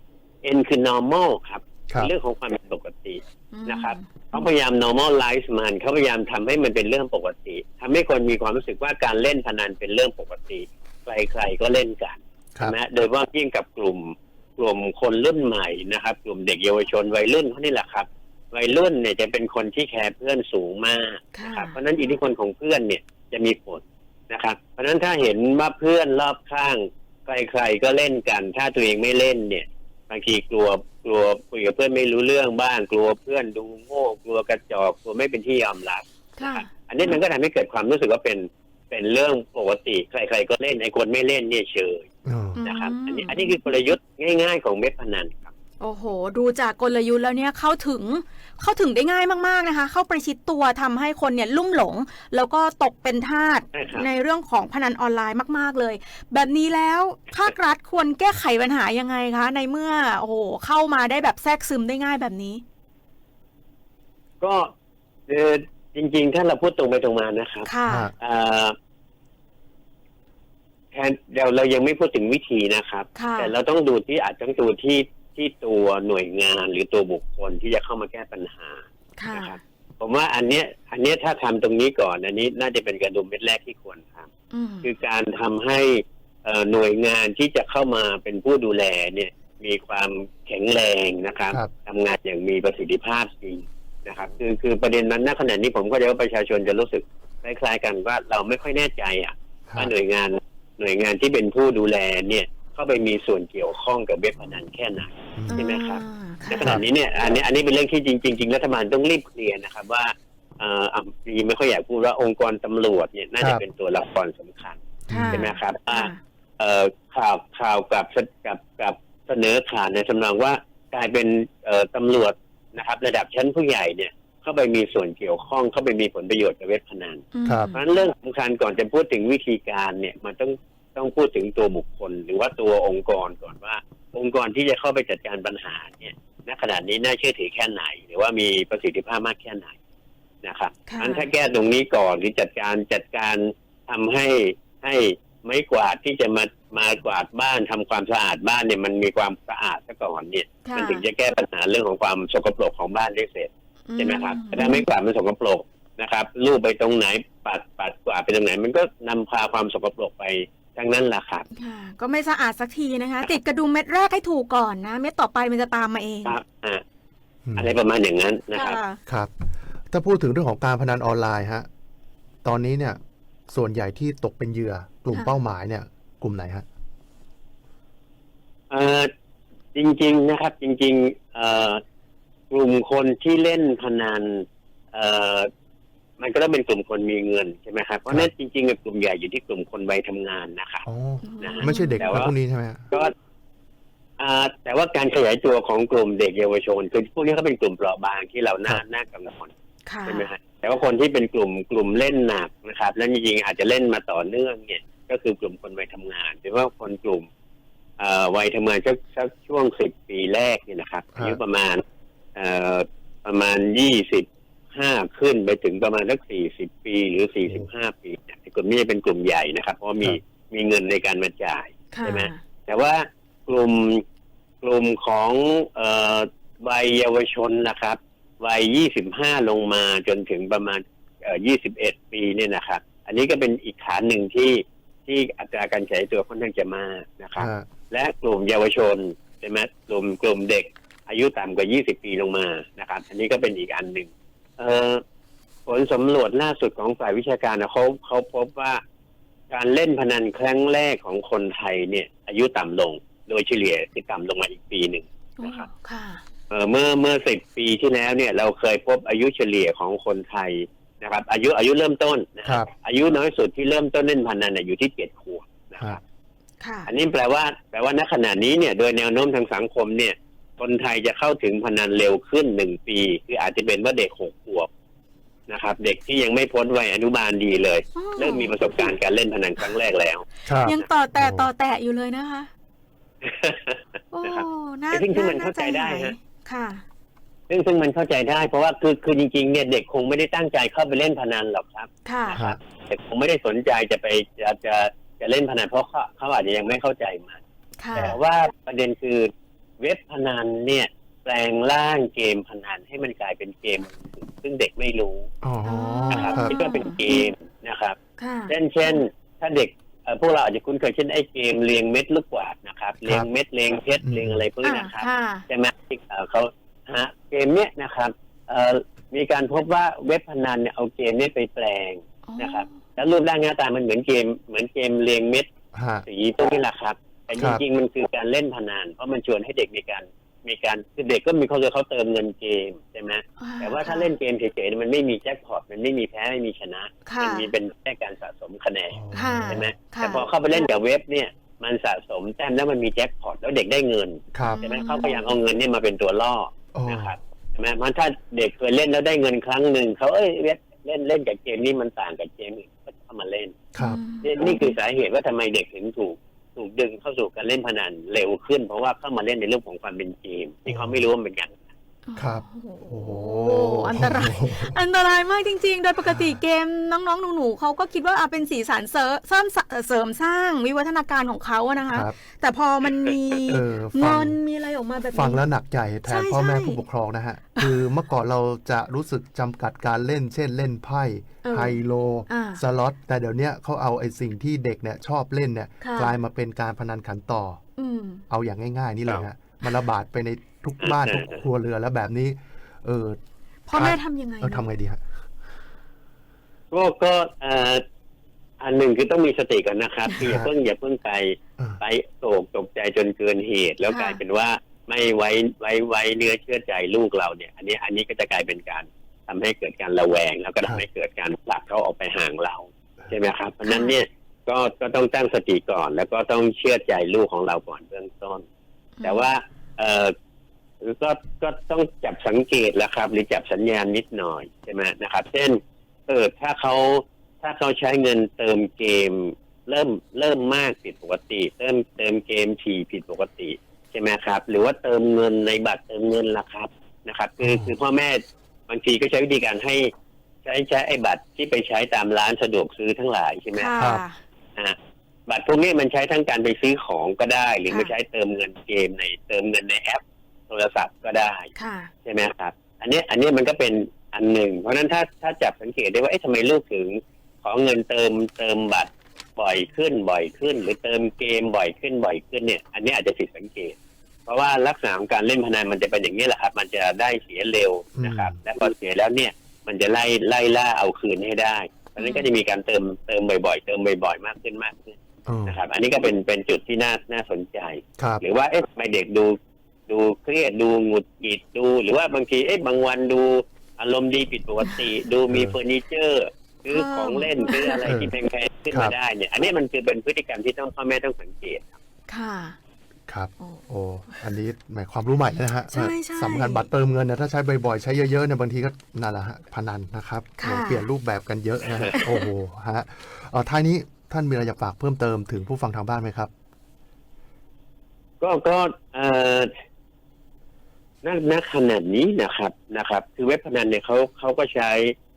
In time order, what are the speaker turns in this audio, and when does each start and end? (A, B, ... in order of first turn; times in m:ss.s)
0:00.4-0:42.1 A
0:03.5-0:04.3 B
0:21.3-0:21.8 B
0:36.4-0:36.7 B
0:42.3-0:42.6 C
0:42.6-0:43.6 B
0:42.6-0:45.5 A
0:45.8-1:02.6 B
0:53.7-0:54.1 A
1:04.4-1:04.7 A
1:05.3-1:08.8 A
1:07.6-1:08.1 B
1:07.9-1:08.1 C
1:10.9-1:24.3 A
1:13.2-1:13.5 B
1:19.2-1:19.6 B
1:24.5-1:24.9 B
1:24.8-2:19.8 A
1:45.4-1:45.6 C
1:45.5-1:46.8 B
1:55.1-1:55.5 C
1:55.1-1:56.2 B
2:07.3-2:07.9 B
2:07.4-2:07.7 C
2:20.4-2:41.5 A
2:20.9-2:21.2 B
2:30.6-2:31.0 B
2:33.9-2:34.9 B
2:41.6-2:46.4 B
2:46.2-2:46.8 A
2:47.4-2:47.7 C
2:47.6-2:48.8 A
2:48.5-2:49.0 B
2:49.1-2:51.7 C
2:52.4-2:53.0 C
2:53.5-2:56.6 C
2:58.7-2:59.1 A
2:59.8-3:01.8 A
3:02.5-3:05.5 A
3:06.2-3:10.8 A
3:10.9-3:12.8 C
3:11.2-3:12.1 B
3:11.4-3:12.3 A
3:14.2-3:19.5 A
3:19.9-3:20.3 B
3:20.0-3:27.3 A
3:28.0-3:31.8 A
3:32.4-3:44.0 A
3:41.9-3:42.4 B
3:44.6-4:05.0 A
3:57.4-3:57.7 C
4:05.7-4:08.8 A
4:09.5-4:15.7 A
4:15.4-4:16.2 B
4:16.5-4:26.0 A
4:26.6-4:26.9 B
4:26.9-4:34.7 A
4:35.5-4:40.3 A
4:38.0-4:38.6 B
4:40.5-4:41.5 C
4:40.6-4:42.5 B
4:43.2-4:46.2 A
4:44.1-4:46.8 B
4:47.5-4:57.4 A
4:52.0-4:52.4 B
4:57.8-4:58.2 B
4:58.0-5:05.3 A
5:05.4-5:06.6 C
5:05.6-5:07.0 B
5:06.1-5:08.0 A
5:08.2-5:09.0 B
5:08.5-5:25.5 A
5:13.0-5:13.3 C
5:14.0-5:14.4 C
5:14.6-5:15.4 B
5:22.3-5:22.8 B
5:25.7-5:26.0 C
5:26.1-5:53.6 A
5:27.4-5:27.6 C
5:33.4-5:34.1 B
5:37.1-5:37.5 B
5:38.9-5:39.7 C
5:39.1-5:40.3 B
5:44.3-5:44.6 C
5:44.4-5:45.2 B
5:46.7-5:47.1 C
5:53.7-5:54.0 C
5:53.8-5:54.7 B
5:54.2-6:01.6 A
6:00.7-6:01.0 C
6:02.1-6:15.4 B
6:02.2-6:04.8 C
6:06.0-6:06.4 C
6:13.5-6:14.4 C
6:15.1-6:27.6 C
6:16.1-6:16.8 B
6:17.6-6:17.9 B
6:21.4-6:22.6 B
6:25.8-6:26.1 B
6:27.8-6:28.2 B
6:28.3-6:33.2 C
6:30.8-6:31.4 A
6:33.7-6:34.7 B
6:33.7-6:35.0 C
6:36.7-6:37.8 A
6:38.6-6:58.5 A
6:40.2-6:40.5 C
6:43.9-6:44.2 B
6:53.6-6:54.0 B
6:59.0-6:59.3 B
6:59.0-7:00.1 A
7:00.8-7:19.9 A
7:17.4-7:17.8 C
7:20.4-7:23.8 A
7:23.5-7:24.2 B
7:23.8-7:24.0 C
7:25.3-7:31.5 A
7:27.7-7:27.9 B
7:31.6-7:31.9 B
7:32.0-7:59.4 A
7:48.0-7:48.4 C
7:52.0-7:52.3 B
7:55.3-7:55.6 C
7:59.9-8:11.7 A
8:05.3-8:05.6 C
8:06.7-8:07.8 B
8:07.8-8:08.1 C
8:12.1-8:12.6 B
8:13.1-8:26.3 C
8:13.4-8:14.3 B
8:15.7-8:16.7 B
8:20.4-8:20.9 B
8:22.0-8:22.3 B
8:28.2-8:29.5 A
8:31.0-8:35.0 A